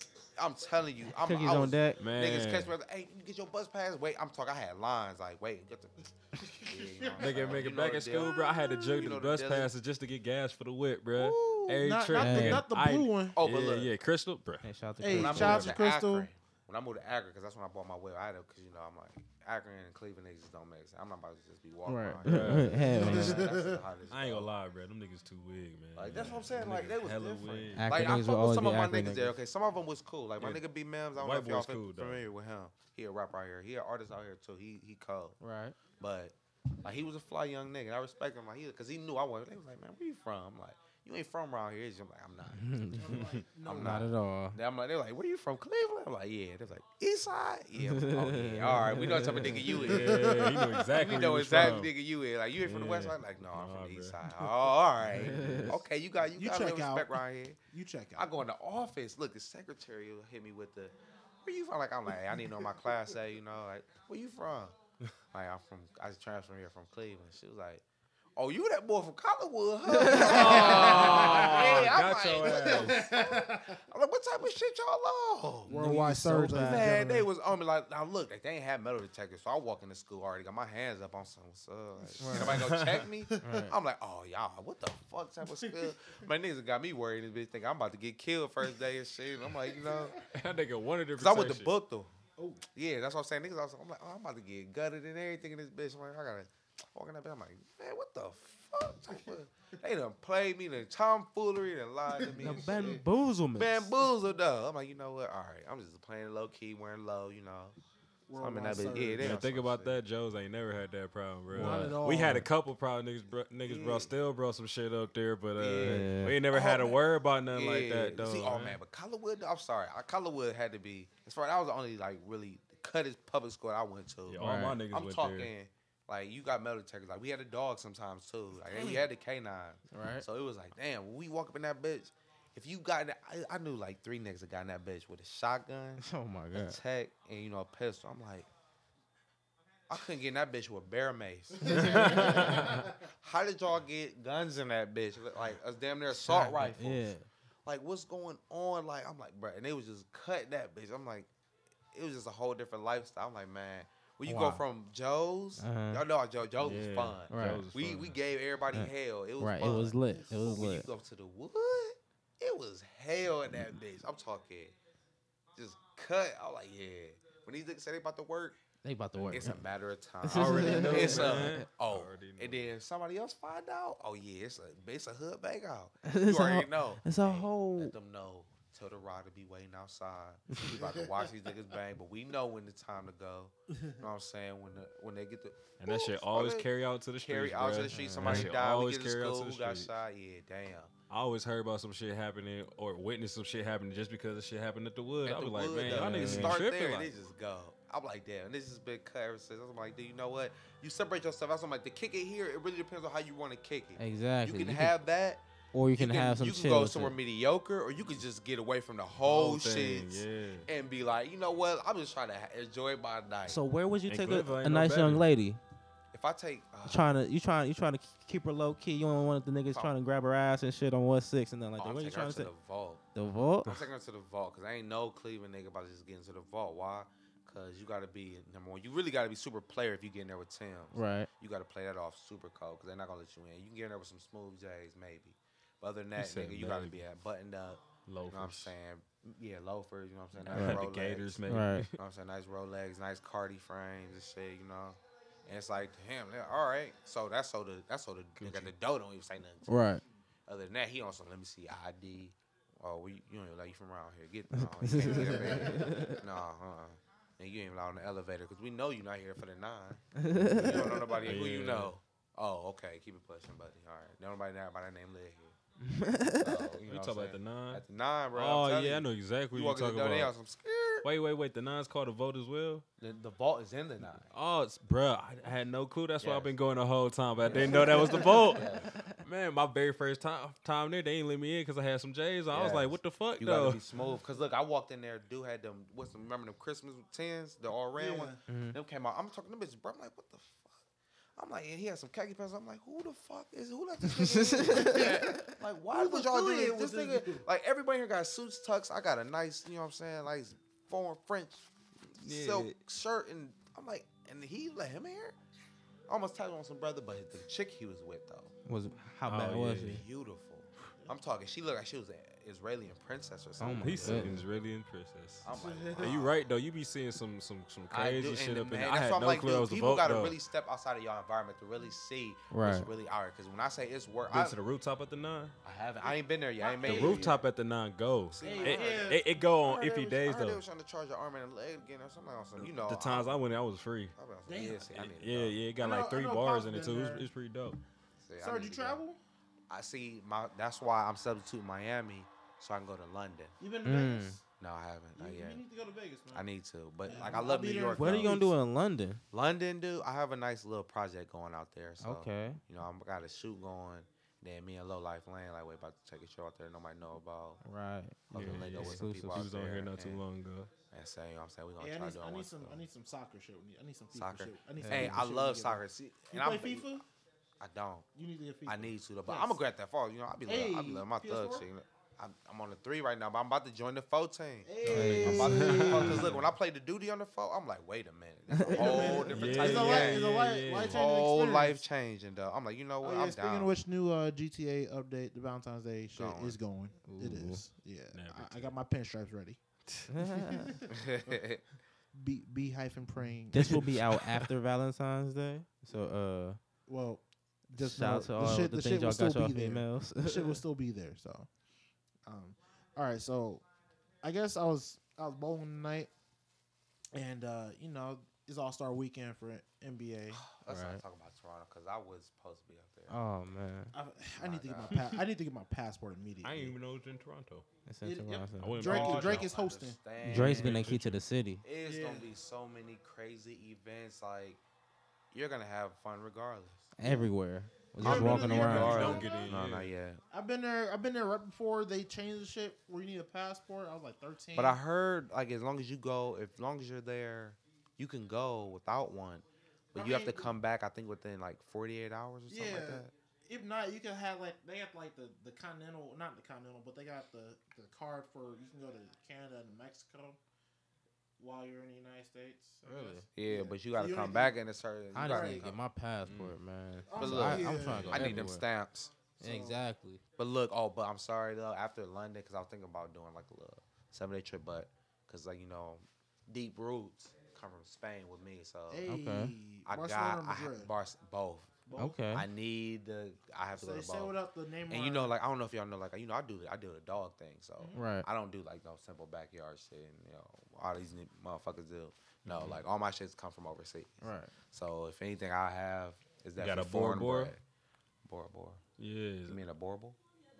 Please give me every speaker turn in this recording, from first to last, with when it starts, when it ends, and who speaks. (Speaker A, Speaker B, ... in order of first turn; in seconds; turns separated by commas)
Speaker A: 0.3-6.1, Speaker B: 1.1-2.0, Speaker C: 2.0-2.7, Speaker D: 6.3-7.4, Speaker A: 6.6-9.7, Speaker C: 7.2-14.7, Speaker A: 11.2-11.7, Speaker D: 11.6-13.4, Speaker B: 12.1-12.6, Speaker A: 13.3-13.9, Speaker B: 14.6-15.7, Speaker D: 15.0-16.3, Speaker A: 15.1-24.5, Speaker C: 15.2-15.8, Speaker B: 21.9-23.4, Speaker C: 22.2-22.9, Speaker D: 22.8-23.8, Speaker C: 24.1-28.1, Speaker A: 25.9-35.4, Speaker B: 27.8-29.3, Speaker C: 31.1-32.2, Speaker B: 35.4-35.8, Speaker A: 36.0-42.7, Speaker B: 42.5-44.6, Speaker D: 43.0-44.1, Speaker C: 43.1-43.4, Speaker A: 43.6-57.6, Speaker B: 47.8-49.6, Speaker D: 49.7-51.8, Speaker C: 49.7-51.9, Speaker C: 52.6-54.3, Speaker C: 55.0-55.8, Speaker B: 55.1-55.8, Speaker D: 56.3-57.2, Speaker D: 57.7-58.3, Speaker A: 58.1-64.8, Speaker A: 65.3-67.8, Speaker A: 68.3-75.8, Speaker B: 69.9-70.4, Speaker D: 70.0-73.8, Speaker C: 70.1-73.0, Speaker B: 75.7-77.2, Speaker D: 75.7-77.3, Speaker A: 76.6-90.2, Speaker B: 82.2-82.6, Speaker D: 82.2-82.5, Speaker C: 82.5-83.0, Speaker B: 83.4-83.7, Speaker D: 89.6-90.2, Speaker C: 90.3-91.7, Speaker A: 91.2-92.1, Speaker D: 92.4-92.6, Speaker A: 92.7-103.0, Speaker D: 102.2-103.0, Speaker B: 102.4-103.9, Speaker A: 103.5-107.8, Speaker D: 108.3-109.3, Speaker A: 108.4-110.0, Speaker C: 109.2-118.8, Speaker D: 111.5-112.5, Speaker B: 111.5-112.0, Speaker A: 113.7-114.0, Speaker A: 115.6-117.0, Speaker B: 115.8-116.4, Speaker A: 117.5-138.5, Speaker C: 124.3-125.5, Speaker B: 124.4-124.8, Speaker B: 128.7-129.0, Speaker B: 129.9-130.2, Speaker B: 136.0-136.8, Speaker A: 139.9-147.1, Speaker D: 141.6-142.9, Speaker C: 141.7-142.8, Speaker B: 146.2-147.2, Speaker A: 147.6-151.3, Speaker A: 151.9-164.7, Speaker B: 154.2-154.6, Speaker B: 155.6-156.0, Speaker C: 156.6-158.2, Speaker B: 157.3-157.6, Speaker B: 158.7-160.9, Speaker A: 165.5-168.6, Speaker B: 168.8-169.6, Speaker C: 169.2-169.5, Speaker A: 169.3-186.7, Speaker B: 170.2-171.6, Speaker C: 170.3-172.7, Speaker B: 176.0-177.9, Speaker C: 185.8-189.9, Speaker A: 187.2-190.9, Speaker B: 187.9-188.5, Speaker C: 191.1-197.1, Speaker A: 195.2-205.4, Speaker B: 195.9-196.6, Speaker B: 204.0-204.9, Speaker B: 205.7-207.1, Speaker A: 205.9-213.6, Speaker C: 209.2-210.7, Speaker B: 213.4-215.6, Speaker C: 214.1-215.2, Speaker A: 216.1-217.1, Speaker B: 216.9-222.5, Speaker A: 221.8-223.0, Speaker B: 223.1-223.8, Speaker A: 223.6-241.4, Speaker B: 230.9-231.3, Speaker C: 236.2-237.0, Speaker C: 238.1-238.7, Speaker C: 240.4-241.9, Speaker B: 240.5-240.8, Speaker B: 241.5-241.8, Speaker A: 241.9-249.7, Speaker C: 248.4-248.7, Speaker B: 249.7-250.0, Speaker A: 250.5-265.6, Speaker B: 254.5-256.2, Speaker D: 255.0-256.1, Speaker B: 260.1-260.9, Speaker D: 260.6-261.3, Speaker C: 261.1-261.9, Speaker B: 265.8-266.7, Speaker A: 266.4-271.1, Speaker C: 266.8-267.8, Speaker C: 268.3-270.3, Speaker C: 271.0-272.8, Speaker A: 273.0-274.3, Speaker C: 274.3-283.8, Speaker A: 276.2-276.5, Speaker A: 277.4-278.9, Speaker D: 277.7-278.1, Speaker B: 277.9-279.2, Speaker A: 282.5-290.8, Speaker D: 283.9-284.2, Speaker D: 287.9-288.4, Speaker B: 288.5-288.8, Speaker A: 291.4-305.4, Speaker B: 294.1-295.0, Speaker D: 294.7-297.4, Speaker C: 302.2-302.8, Speaker A: 306.1-308.5, Speaker B: 308.6-310.0, Speaker C: 309.2-310.0, Speaker A: 309.9-314.4, Speaker B: 313.6-314.4, Speaker C: 313.8-320.4, Speaker A: 315.4-316.4, Speaker D: 315.5-316.2, Speaker A: 317.9-324.6, Speaker B: 322.5-322.9, Speaker C: 324.3-325.5, Speaker A: 325.6-327.4, Speaker D: 326.0-327.4, Speaker C: 326.8-330.6, Speaker A: 328.3-333.4, Speaker D: 328.4-329.3, Speaker C: 332.6-334.1, Speaker A: 334.1-335.6, Speaker D: 334.5-334.9, Speaker C: 334.9-337.8, Speaker D: 335.8-337.3, Speaker A: 338.2-339.0, Speaker D: 338.4-339.2, Speaker A: 339.7-343.6, Speaker D: 343.6-344.4, Speaker B: 343.8-344.4, Speaker A: 344.6-345.6, Speaker D: 345.2-346.4, Speaker A: 346.3-348.5, Speaker D: 347.0-348.5, Speaker B: 347.9-349.2, Speaker A: 349.3-357.6, Speaker B: 352.0-352.6, Speaker B: 357.6-359.5, Speaker A: 358.3-360.2, Speaker C: 358.3-360.7, Speaker A: 360.9-362.8, Speaker D: 361.8-367.0, Speaker A: 364.1-366.9, Speaker B: 364.8-365.2, Speaker A: 367.6-368.1, Speaker D: 368.1-369.6, Speaker A: 368.6-383.7, Speaker D: 370.4-371.6, Speaker D: 374.6-376.3, Speaker C: 374.8-376.4, Speaker B: 374.8-375.9, Speaker B: 378.5-379.2, Speaker D: 378.7-381.8, Speaker C: 379.2-381.0, Speaker D: 383.0-389.6, Speaker A: 386.1-386.6, Speaker B: 387.0-387.6, Speaker C: 388.1-388.7, Speaker B: 390.1-390.8, Speaker D: 390.2-390.9, Speaker A: 390.9-391.6, Speaker D: 392.1-393.9, Speaker B: 393.5-396.6, Speaker D: 396.9-401.5, Speaker B: 397.8-400.6, Speaker D: 402.2-403.6, Speaker D: 404.2-406.1, Speaker D: 407.1-410.4, Speaker A: 410.3-413.1, Speaker B: 410.6-411.0, Speaker B: 413.1-413.9, Speaker D: 413.9-416.7, Speaker A: 414.4-415.0, Speaker C: 416.4-417.6, Speaker B: 417.9-418.8, Speaker D: 418.0-420.0, Speaker C: 418.6-419.5, Speaker A: 418.8-420.9, Speaker B: 420.2-421.6, Speaker C: 420.3-421.2, Speaker A: 421.6-424.6, Speaker D: 421.8-422.3, Speaker A: 425.3-426.9, Speaker B: 427.0-429.2, Speaker D: 427.0-427.3, Speaker D: 428.0-429.6, Speaker A: 428.0-430.2, Speaker C: 428.0-429.9, Speaker D: 430.3-434.8, Speaker A: 434.5-443.1, Speaker D: 439.9-440.5, Speaker D: 442.5-450.4, Speaker D: 451.4-454.6, Speaker B: 452.8-453.2, Speaker A: 453.3-455.8, Speaker B: 455.1-458.6, Speaker D: 455.2-455.6, Speaker C: 456.2-456.5, Speaker D: 457.1-458.1, Speaker A: 457.1-459.1, Speaker C: 457.8-458.4, Speaker D: 459.4-459.8, Speaker B: 459.4-460.2, Speaker A: 460.4-469.0, Speaker D: 468.9-470.9, Speaker B: 469.1-469.5, Speaker A: 469.9-471.8, Speaker D: 471.9-472.2, Speaker B: 471.9-472.5, Speaker A: 472.3-474.3, Speaker D: 473.8-475.3, Speaker A: 474.9-487.6, Speaker B: 477.9-478.2, Speaker C: 482.4-482.8, Speaker B: 484.2-484.5, Speaker C: 486.6-487.5, Speaker A: 488.2-488.8, Speaker C: 489.0-489.6, Speaker A: 489.5-490.2